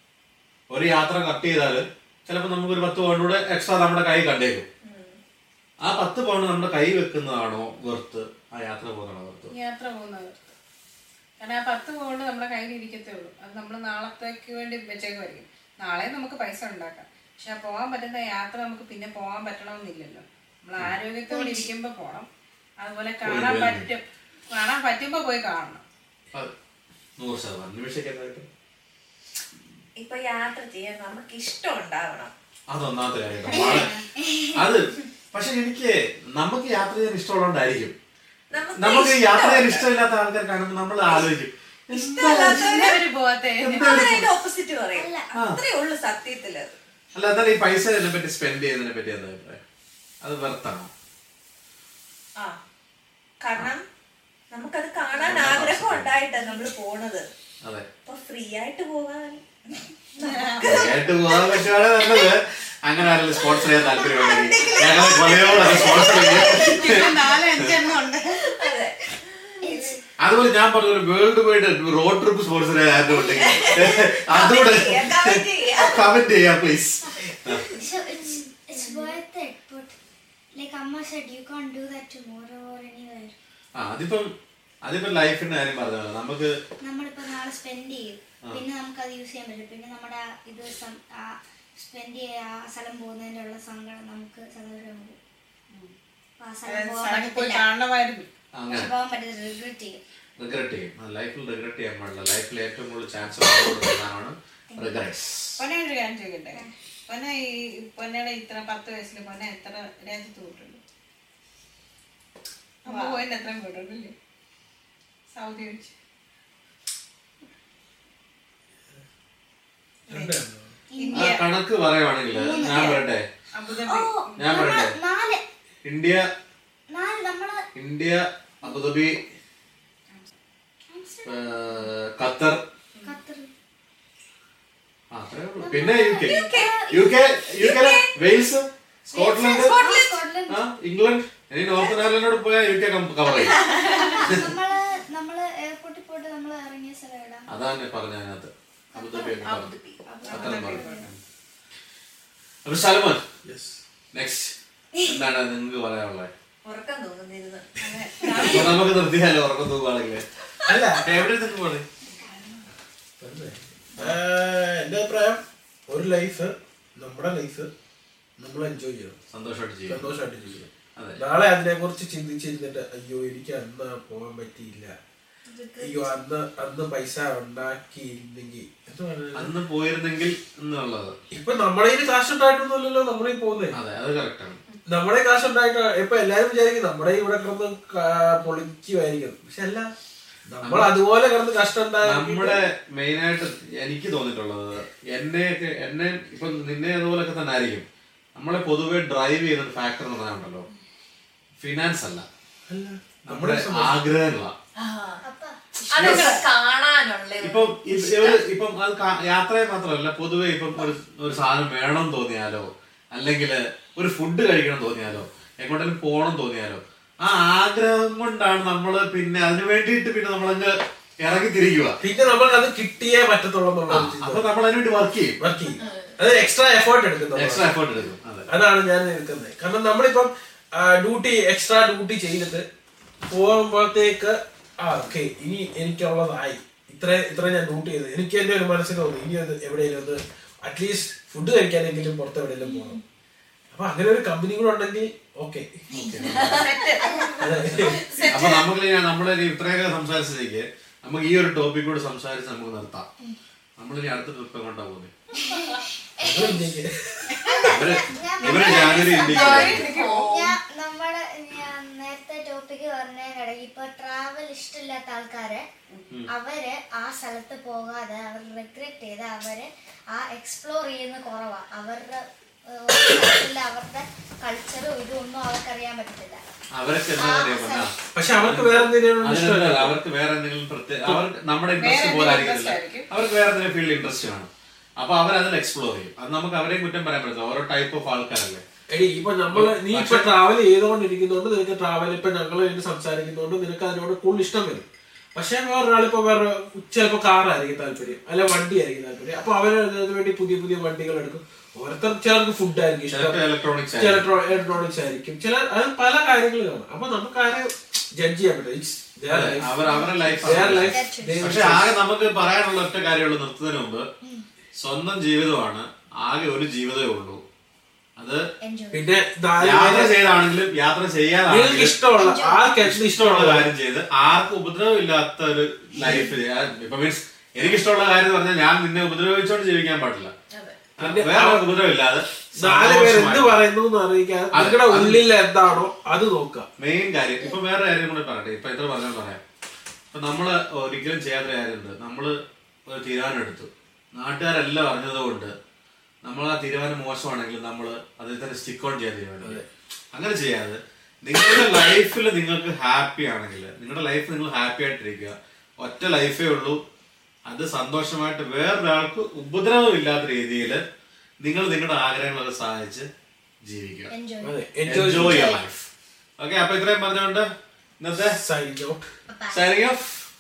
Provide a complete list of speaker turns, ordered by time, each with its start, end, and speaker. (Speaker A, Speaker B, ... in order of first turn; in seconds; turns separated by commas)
Speaker A: 0.7-4.7, Speaker B: 4.8-5.2, Speaker A: 5.8-9.5, Speaker C: 9.5-10.5, Speaker C: 11.4-22.3, Speaker D: 21.3-21.7, Speaker C: 22.8-25.8, Speaker A: 23.2-23.9, Speaker A: 27.2-28.5, Speaker B: 30.0-32.3, Speaker A: 32.7-33.9, Speaker C: 33.5-34.1, Speaker D: 33.5-34.6, Speaker A: 34.5-38.0, Speaker B: 38.5-39.9, Speaker A: 38.8-42.8, Speaker B: 41.9-43.0, Speaker C: 42.2-44.2, Speaker A: 43.6-44.3, Speaker B: 43.7-46.7, Speaker D: 44.9-45.3, Speaker A: 47.1-49.6, Speaker A: 50.2-50.9, Speaker B: 53.4-53.8, Speaker B: 54.5-57.3, Speaker A: 55.3-56.2, Speaker A: 57.6-57.9, Speaker B: 58.1-62.2, Speaker C: 60.2-60.6, Speaker A: 60.6-67.7, Speaker B: 63.1-70.0, Speaker C: 66.5-68.8, Speaker D: 69.6-70.0, Speaker A: 70.2-77.7, Speaker B: 73.1-76.1, Speaker D: 77.3-80.0, Speaker B: 78.8-79.2, Speaker D: 80.5-83.4, Speaker A: 83.8-84.3, Speaker A: 84.8-86.5, Speaker D: 86.8-95.2, Speaker D: 96.4-97.7, Speaker C: 96.7-98.3, Speaker A: 98.5-98.9, Speaker D: 98.7-100.0, Speaker A: 100.4-105.6, Speaker D: 104.7-105.0, Speaker C: 105.6-110.8, Speaker C: 112.8-114.1, Speaker B: 112.9-113.2, Speaker C: 115.3-115.9, Speaker E: 120.1-120.7, Speaker C: 120.1-120.4, Speaker D: 120.9-121.4, Speaker C: 121.0-121.4, Speaker A: 121.1-123.2, Speaker D: 122.3-123.0, Speaker C: 123.5-124.6, Speaker D: 123.8-125.4, Speaker A: 124.4-124.9, Speaker A: 125.8-126.3, Speaker D: 126.9-127.6, Speaker A: 127.8-129.2, Speaker D: 130.9-131.8, Speaker A: 131.2-132.6, Speaker D: 133.0-133.5, Speaker A: 135.1-139.8, Speaker D: 135.6-137.0, Speaker B: 136.2-136.8, Speaker B: 137.6-138.2, Speaker B: 139.1-140.2, Speaker D: 139.4-140.6, Speaker A: 140.5-143.6, Speaker D: 143.4-147.5, Speaker B: 143.4-144.3, Speaker A: 144.2-144.5, Speaker A: 147.5-149.7, Speaker B: 149.0-150.0, Speaker D: 150.1-151.1, Speaker C: 150.2-151.1, Speaker A: 150.3-151.2, Speaker A: 152.7-153.2, Speaker E: 153.4-153.8, Speaker A: 154.1-154.6, Speaker D: 154.9-155.2, Speaker A: 155.1-156.3, Speaker B: 156.7-158.8, Speaker C: 157.8-158.9, Speaker A: 158.5-160.2, Speaker E: 160.7-161.0, Speaker A: 160.9-161.9, Speaker C: 162.1-162.7, Speaker E: 163.2-167.7, Speaker E: 168.4-169.2, Speaker A: 169.3-170.1, Speaker E: 169.9-175.0, Speaker B: 175.5-176.1, Speaker E: 175.8-179.5, Speaker A: 179.3-181.2, Speaker E: 181.3-183.8, Speaker A: 183.7-184.6, Speaker E: 184.9-189.9, Speaker E: 190.5-192.6, Speaker A: 190.6-190.9, Speaker A: 192.0-197.8, Speaker A: 198.4-200.7, Speaker A: 201.6-202.3, Speaker E: 202.7-204.0, Speaker A: 203.3-204.5, Speaker B: 204.8-205.2, Speaker D: 205.2-206.4, Speaker B: 205.9-208.4, Speaker A: 205.9-206.3, Speaker A: 207.4-222.0, Speaker E: 222.0-224.4, Speaker A: 223.9-225.4, Speaker E: 225.4-227.8, Speaker B: 225.8-226.2, Speaker A: 227.3-228.5, Speaker E: 228.5-232.7, Speaker E: 233.3-243.0, Speaker D: 242.6-243.0, Speaker E: 243.7-245.9, Speaker D: 245.9-247.9, Speaker A: 245.9-246.7, Speaker B: 246.2-248.7, Speaker E: 247.4-248.1, Speaker A: 248.3-253.1, Speaker A: 253.8-255.1, Speaker D: 255.3-256.7, Speaker B: 255.6-255.8, Speaker E: 256.2-257.4, Speaker D: 257.6-265.7, Speaker A: 257.7-259.9, Speaker C: 258.4-260.4, Speaker B: 258.6-260.6, Speaker D: 266.3-276.4, Speaker A: 276.8-277.9, Speaker D: 277.2-277.9, Speaker E: 278.1-280.0, Speaker A: 278.4-288.6, Speaker C: 281.8-283.1, Speaker E: 288.9-303.4, Speaker A: 289.5-290.3, Speaker A: 303.1-304.3, Speaker E: 304.0-311.9, Speaker A: 309.3-314.1, Speaker D: 309.9-311.6, Speaker A: 314.8-317.4, Speaker A: 318.2-318.4, Speaker D: 318.6-319.1, Speaker E: 318.9-320.1, Speaker A: 319.6-322.0, Speaker E: 321.5-323.7, Speaker D: 322.1-322.7, Speaker A: 322.8-330.3, Speaker B: 330.5-330.8, Speaker A: 331.0-333.6, Speaker E: 331.0-331.7, Speaker E: 332.6-336.7, Speaker A: 334.5-335.2, Speaker A: 336.8-339.4, Speaker A: 340.1-342.4, Speaker A: 342.9-345.5, Speaker A: 346.2-356.8, Speaker A: 357.5-360.8, Speaker A: 361.4-363.1, Speaker A: 363.6-364.1, Speaker D: 364.1-365.6, Speaker E: 364.4-365.6, Speaker A: 364.9-365.9, Speaker A: 366.4-367.5, Speaker A: 368.0-368.4, Speaker E: 368.2-369.1, Speaker D: 369.3-369.6, Speaker A: 369.5-370.3